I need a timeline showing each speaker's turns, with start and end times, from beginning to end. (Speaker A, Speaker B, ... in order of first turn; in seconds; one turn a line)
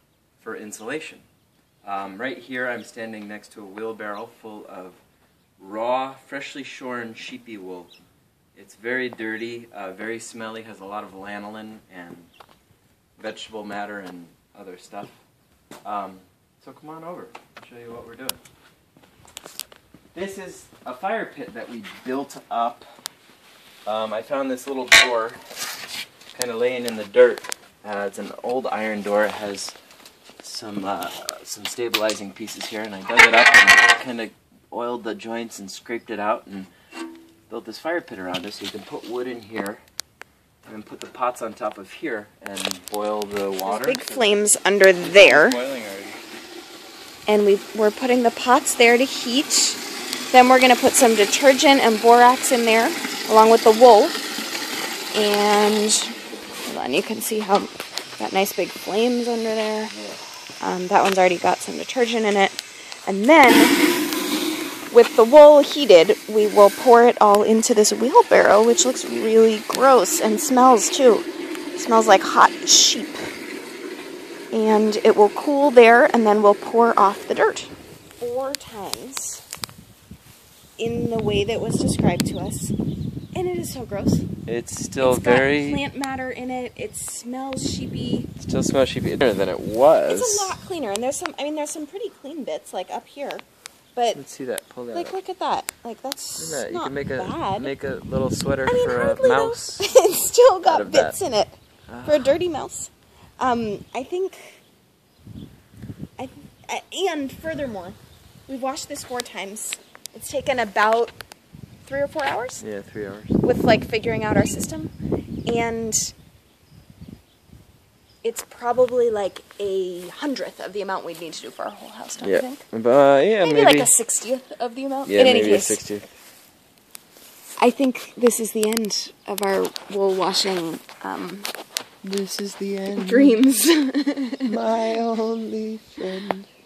Speaker A: 0.4-1.2
Speaker A: 1.8-5.0
Speaker A: 5.6-7.9
Speaker A: 8.6-12.3
Speaker A: 13.2-15.2
Speaker A: 15.8-18.4
Speaker A: 20.1-22.9
Speaker A: 23.9-25.4
Speaker A: 26.3-29.8
Speaker A: 30.4-36.7
Speaker A: 37.5-39.8
Speaker A: 40.6-44.5
Speaker B: 43.6-45.6
Speaker A: 45.0-46.2
Speaker B: 47.3-54.2
Speaker B: 55.1-59.9
Speaker A: 59.9-60.2
Speaker B: 60.6-63.8
Speaker B: 64.9-73.2
Speaker B: 74.5-79.4
Speaker B: 80.8-82.7
Speaker B: 83.3-84.2
Speaker A: 84.5-85.8
Speaker B: 85.0-88.3
Speaker A: 88.4-90.6
Speaker B: 90.1-94.2
Speaker A: 94.1-95.2
Speaker B: 94.9-97.7
Speaker A: 96.4-99.9
Speaker B: 98.7-104.6
Speaker A: 100.6-101.2
Speaker A: 101.9-102.4
Speaker B: 106.2-111.2
Speaker B: 111.8-112.6
Speaker A: 112.6-113.4
Speaker B: 113.4-114.9
Speaker B: 115.5-116.1
Speaker B: 118.2-122.6
Speaker A: 122.2-123.9
Speaker B: 123.4-125.8
Speaker A: 125.0-126.1
Speaker B: 127.6-131.5
Speaker A: 132.0-133.4
Speaker B: 132.9-134.6
Speaker A: 134.4-136.5